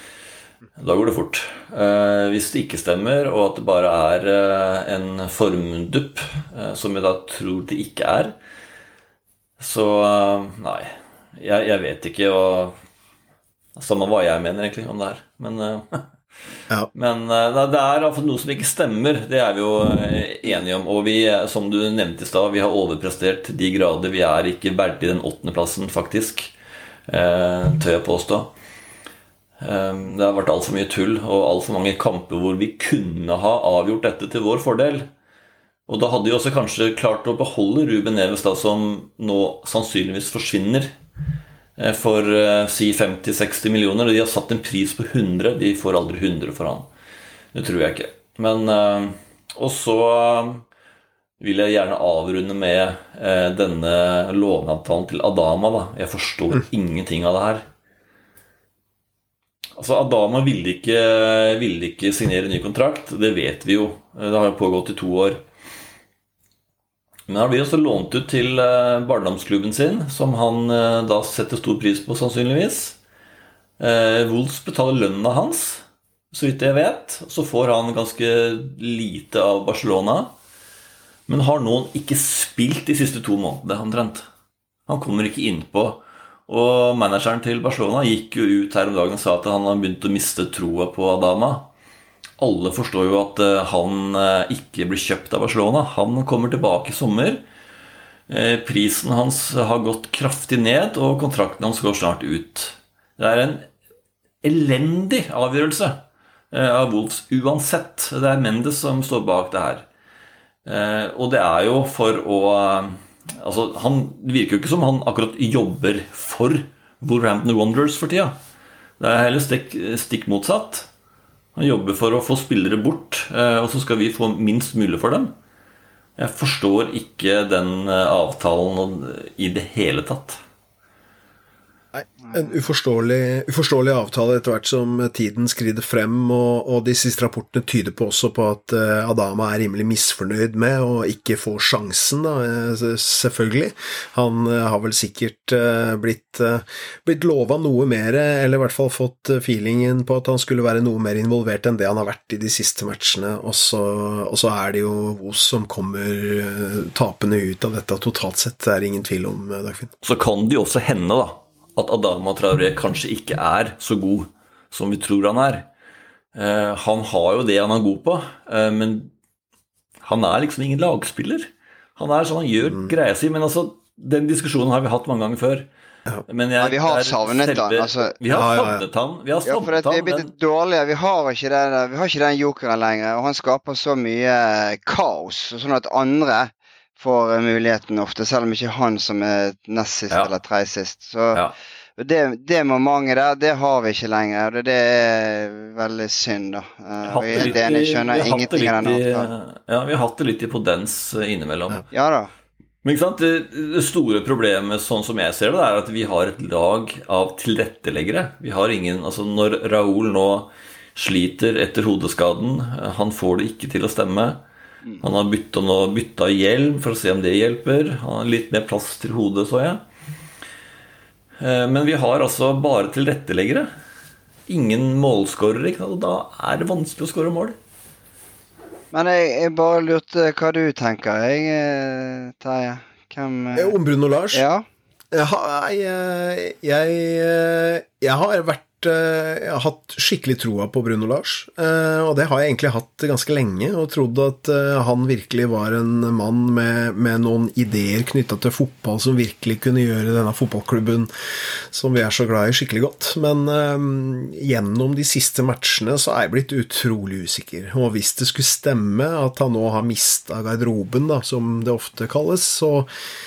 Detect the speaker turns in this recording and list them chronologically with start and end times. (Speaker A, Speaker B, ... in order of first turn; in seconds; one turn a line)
Speaker A: 0.8-8.3
Speaker A: 9.6-12.8
Speaker A: 13.8-16.1
Speaker A: 16.9-26.5
Speaker A: 27.1-28.5
Speaker A: 29.6-35.1
Speaker A: 35.9-40.9
Speaker A: 41.8-46.9
Speaker A: 47.5-50.6
Speaker A: 51.4-57.6
Speaker A: 59.8-65.4
Speaker A: 67.3-73.0
Speaker A: 73.8-80.3
Speaker A: 81.3-84.3
Speaker A: 84.9-91.7
Speaker A: 92.4-97.4
Speaker A: 98.3-103.7
Speaker A: 104.4-109.9
Speaker A: 110.7-118.3
Speaker A: 119.0-120.9
Speaker A: 121.5-125.3
Speaker A: 126.2-130.4
Speaker B: 131.9-159.9
Speaker A: 160.0-165.7
Speaker A: 166.3-169.1
Speaker A: 170.0-175.7
Speaker A: 176.3-180.3
Speaker C: 176.6-178.2
Speaker B: 178.3-178.8
Speaker C: 179.4-191.4
Speaker C: 192.0-199.3
Speaker A: 197.1-201.9
Speaker C: 201.9-202.3
Speaker A: 202.8-214.4
Speaker A: 215.0-219.8
Speaker A: 221.4-223.7
Speaker A: 224.5-227.6
Speaker C: 228.9-233.8
Speaker B: 233.6-234.4
Speaker C: 234.3-234.7
Speaker B: 235.1-251.1
Speaker B: 251.7-262.9